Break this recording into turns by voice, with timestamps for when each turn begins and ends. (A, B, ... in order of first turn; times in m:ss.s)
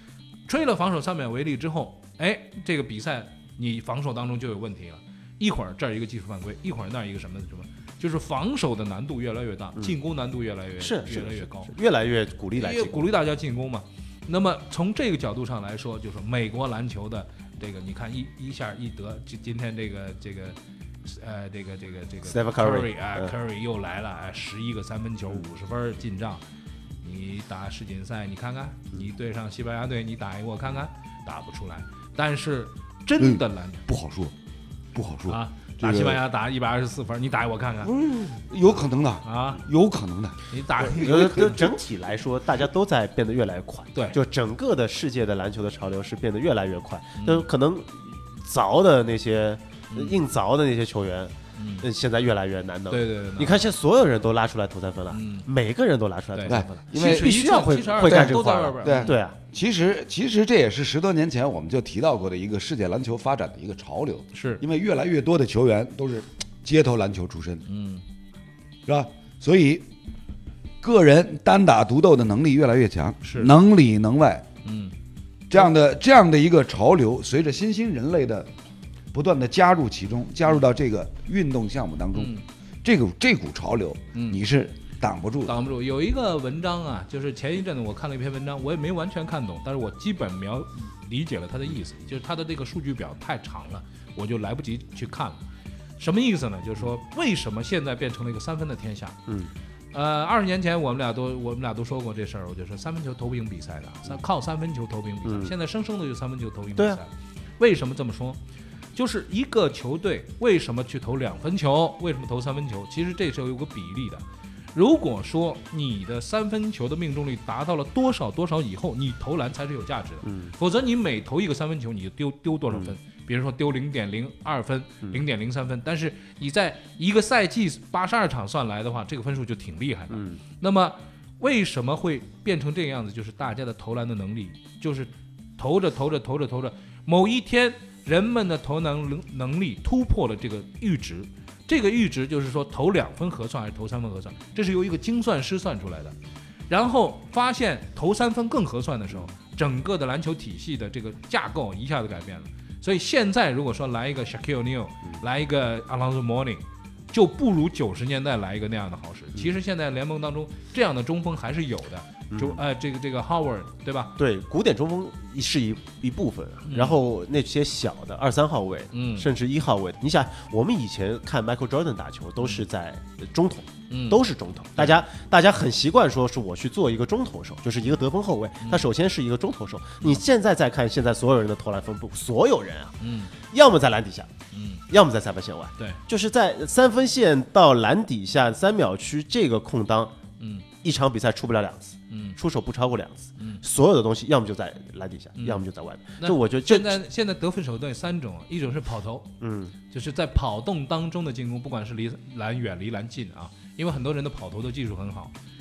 0:00.5-0:11.7 A
0:10.8-0:13.1 B
0:12.6-0:26.4 A
0:22.3-0:23.3 B
0:27.0-0:33.8 A
0:33.2-0:34.3 C
0:34.9-0:36.2 C
0:35.3-0:37.9 A
0:38.0-0:40.4 C
0:39.2-0:39.6 A
0:40.5-0:41.7 A
0:40.8-0:59.4 B
0:47.2-0:47.5 A
0:49.9-0:50.2 A
0:51.6-0:51.9 A
0:52.9-0:53.7 A
0:55.1-0:55.5 A
0:56.4-0:59.2 A
0:56.5-0:57.3 C
0:58.0-1:07.6 C
1:04.3-1:04.6 A
1:07.7-1:08.0 A
1:08.9-1:09.9 C
1:10.8-1:14.4 C
1:13.2-1:13.5 A
1:14.6-1:14.9 A
1:15.5-1:18.5 C
1:19.1-1:22.3 C
1:22.1-1:22.4 A
1:22.8-1:25.6 C
1:25.5-1:35.4 A
1:36.0-1:39.2 A
1:39.9-1:48.4 A
1:45.2-1:45.5 B
1:49.0-2:26.2 A
2:00.2-2:00.5 B
2:10.1-2:10.4 B
2:26.7-2:44.1 A
2:42.3-2:42.6 B
2:44.2-3:04.3 B
2:46.7-2:47.0 A
2:48.9-2:49.3 A
2:53.9-2:54.2 A
2:58.6-2:58.9 A
3:03.0-3:03.3 A
3:04.5-3:04.8 A
3:04.9-3:10.1 B
3:10.4-3:10.6 A
3:10.8-3:17.0 B
3:12.1-3:12.4 A
3:15.4-3:15.6 A
3:16.2-3:19.3 A
3:19.4-3:19.7 B
3:19.9-3:25.3 A